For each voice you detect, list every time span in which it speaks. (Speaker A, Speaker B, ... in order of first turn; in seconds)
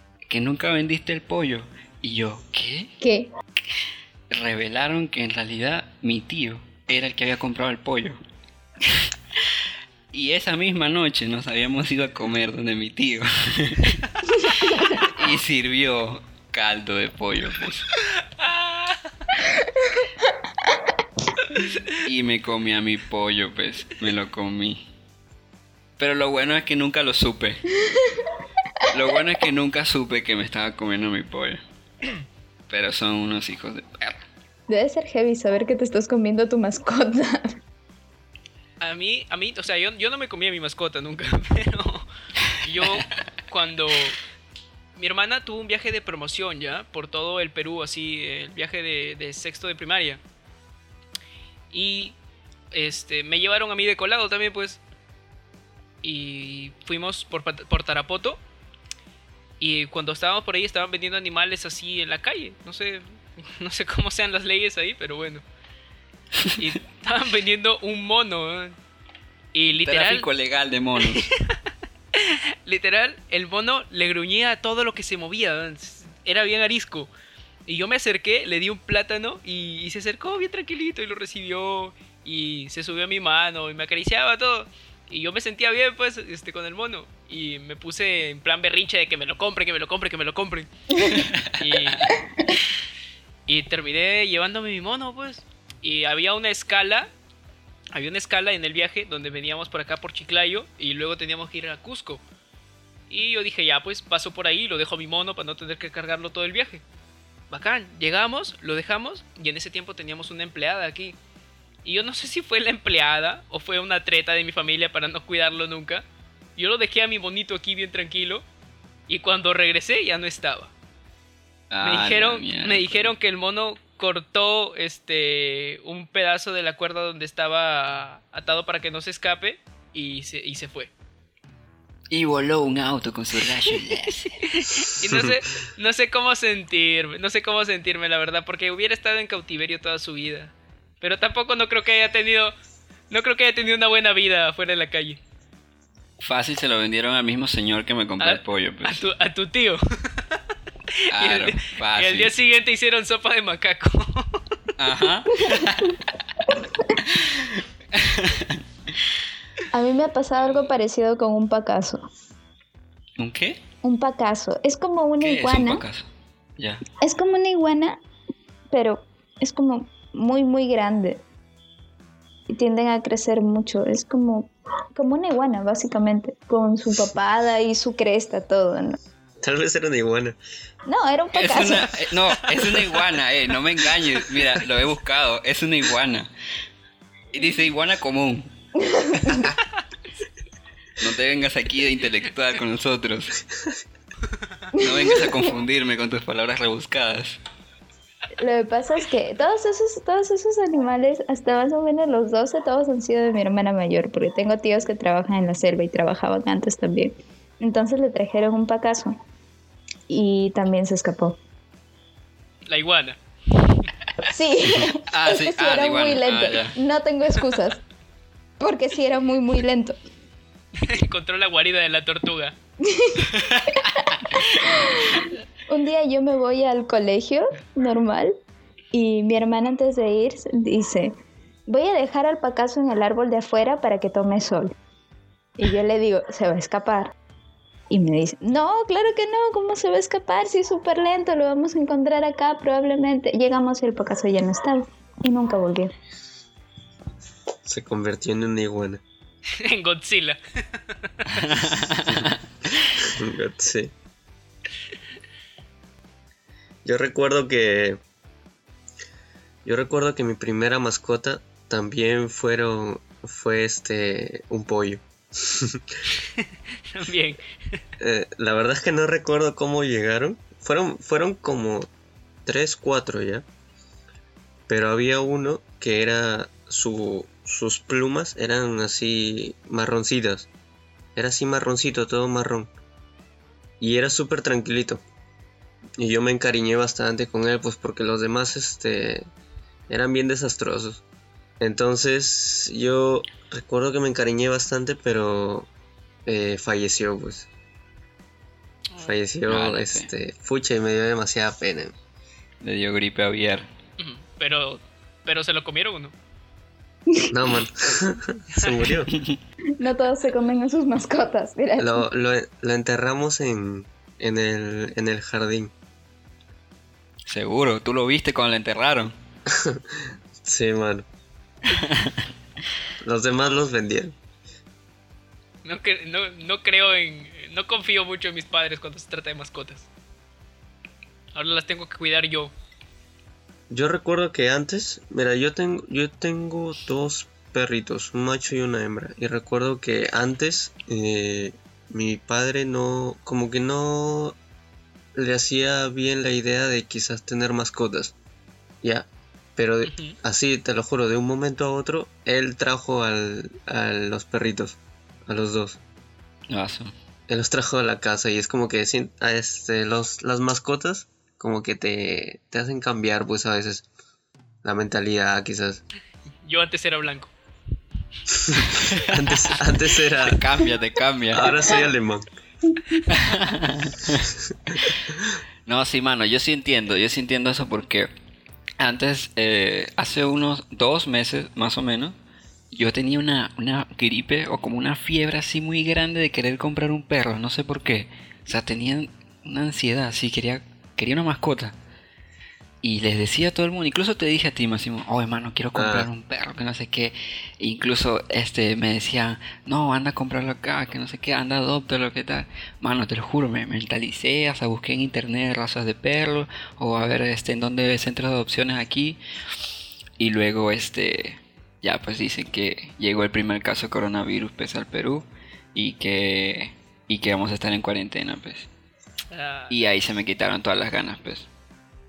Speaker A: 0.3-2.9, 4.3-8.2, 10.1-14.0, 14.6-17.8, 21.9-24.9, 26.0-27.7, 28.9-31.6, 32.7-34.2, 69.8-71.3, 91.2-91.5, 121.7-123.1, 132.1-134.3, 146.2-149.0, 151.1-152.3, 154.8-156.0, 157.0-158.6, 163.2-163.6, 165.2-166.8, 181.3-186.3, 187.3-188.5, 191.0-193.4, 194.8-197.4, 215.1-216.7, 223.5-223.8, 251.4-252.4, 299.5-300.1, 302.6-303.7, 317.3-319.1, 321.7-322.2, 356.5-356.9, 370.2-371.4, 373.1-374.3, 375.6-378.1, 378.8-382.1, 382.7-391.8, 392.8-409.2, 410.2-418.7, 419.7-421.5
Speaker B: 3.0-3.3, 19.5-20.1, 27.8-28.3, 34.7-37.6, 90.9-91.2, 159.7-162.1, 163.8-165.8, 167.0-168.0, 168.7-171.2, 172.5-179.0, 180.8-181.9, 188.8-189.5, 194.7-195.5, 198.4-209.1, 210.1-211.4, 214.3-217.8, 218.6-220.0, 222.8-228.3, 228.9-231.2, 231.7-234.7, 235.6-237.1, 237.9-245.9, 307.1-307.3, 309.8-312.1
Speaker C: 18.0-19.1, 38.8-42.1, 42.6-44.2, 45.0-50.2, 51.7-52.1, 52.7-54.8, 56.0-58.4, 59.6-65.4, 66.6-68.8, 69.5-70.3, 71.0-71.5, 72.1-77.1, 77.7-90.7, 91.5-92.1, 93.5-97.1, 97.9-102.2, 103.1-106.8, 107.5-111.2, 111.8-116.0, 116.5-118.4, 119.1-120.7, 121.8-130.9, 134.5-142.6, 143.1-145.2, 148.2-150.4, 150.9-154.6, 212.7-213.9, 220.7-222.5, 249.5-251.5, 266.9-267.4, 304.0-306.1, 308.6-308.8, 325.6-329.9, 331.3-332.5, 349.8-350.2, 366.4-367.3, 419.3-419.7
Speaker D: 179.4-180.4, 247.7-249.0, 253.0-253.9, 256.8-258.0, 259.6-265.8, 268.0-271.9, 272.4-273.4, 274.7-280.5, 281.1-282.7, 283.8-285.0, 286.0-289.3, 289.9-291.0, 291.6-295.7, 296.2-297.5, 299.0-301.9, 307.3-309.1, 311.8-315.7, 319.5-321.1, 323.0-324.1, 333.7-344.4, 345.1-348.1, 348.8-355.8, 357.3-363.9, 364.6-365.8, 368.3-370.4, 371.3-372.3, 395.7-396.1